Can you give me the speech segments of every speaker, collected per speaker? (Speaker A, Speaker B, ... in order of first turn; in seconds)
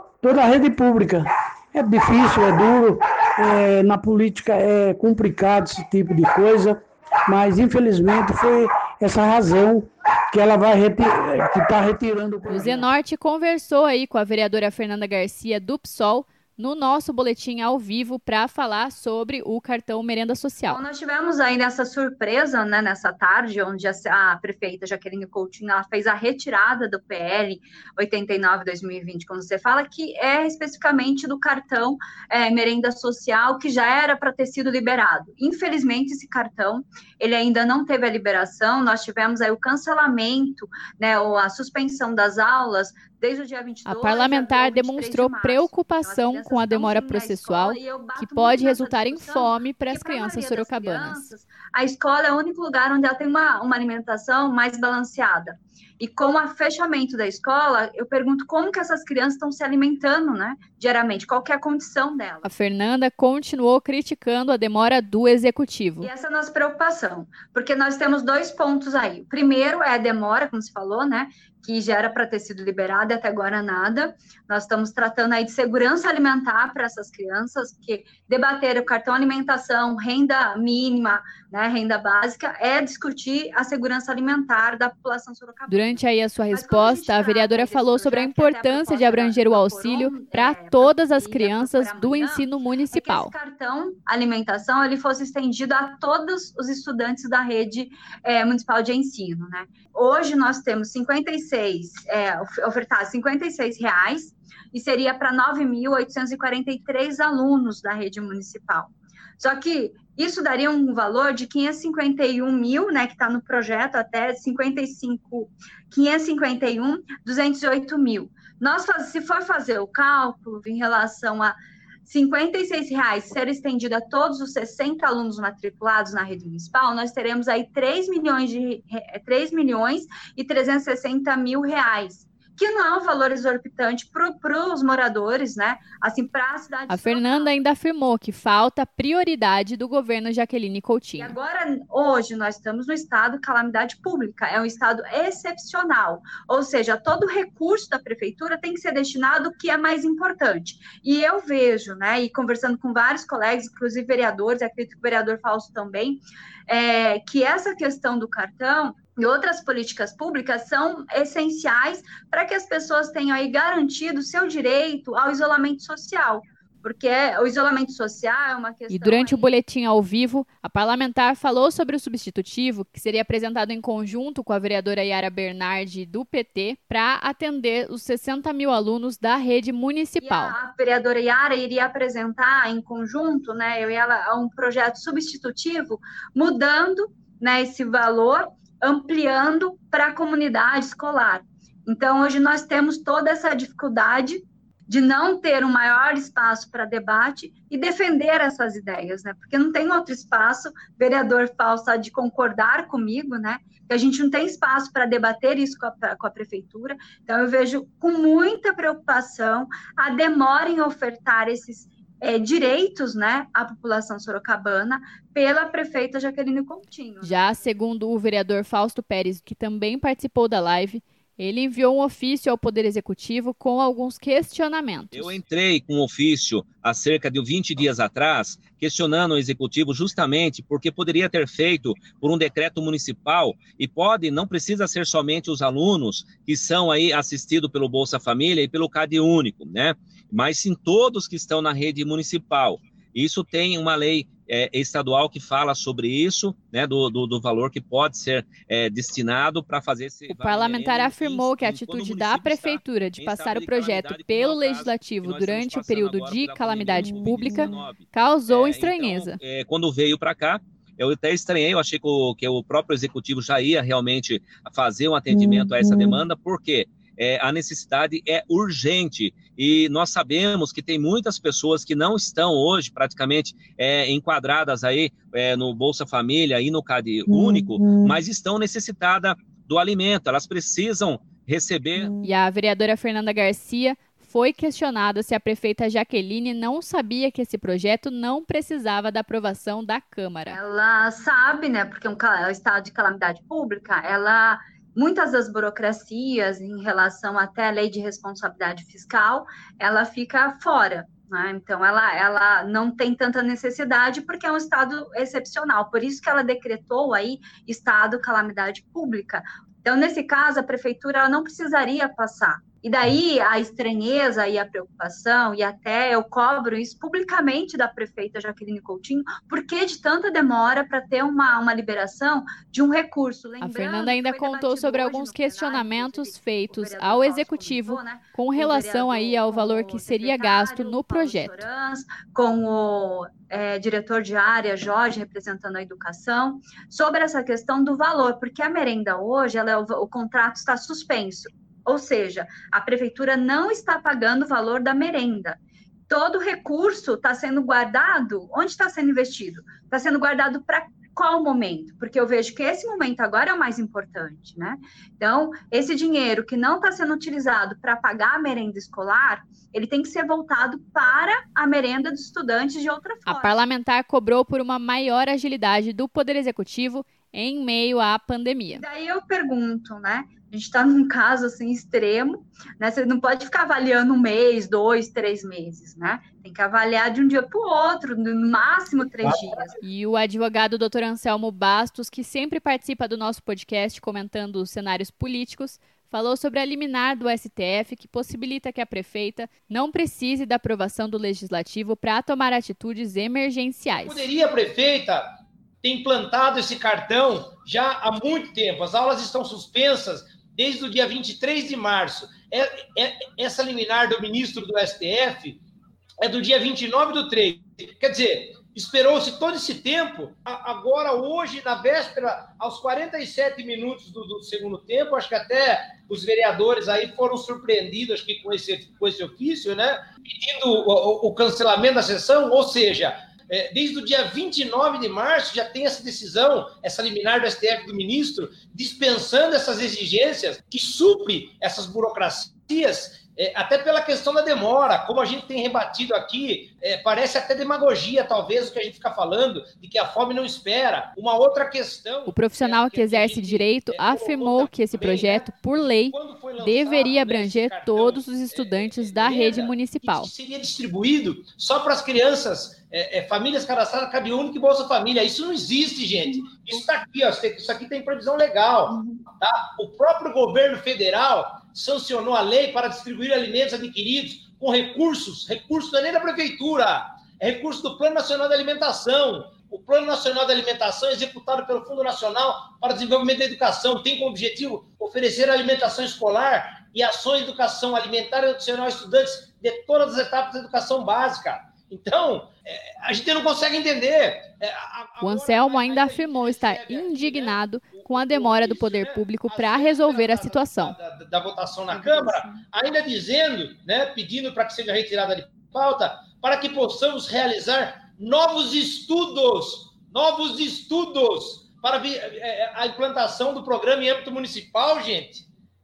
Speaker A: 0.2-12.9
Speaker B: 12.5-20.8, 43.9-51.3, 62.4-66.1, 85.7-93.3, 136.9-141.4, 168.9-180.6, 217.2-225.4, 250.3-259.4, 282.2-290.6, 323.6-331.7, 363.3-368.8, 379.8-394.3, 442.3-450.3, 485.2-490.9
Speaker C: 20.7-62.5, 66.0-137.5, 141.2-169.5, 180.2-217.6, 290.5-345.6, 346.1-363.6, 368.8-379.8
Speaker D: 225.1-282.2
Speaker E: 394.1-395.3, 395.8-405.6, 406.2-505.5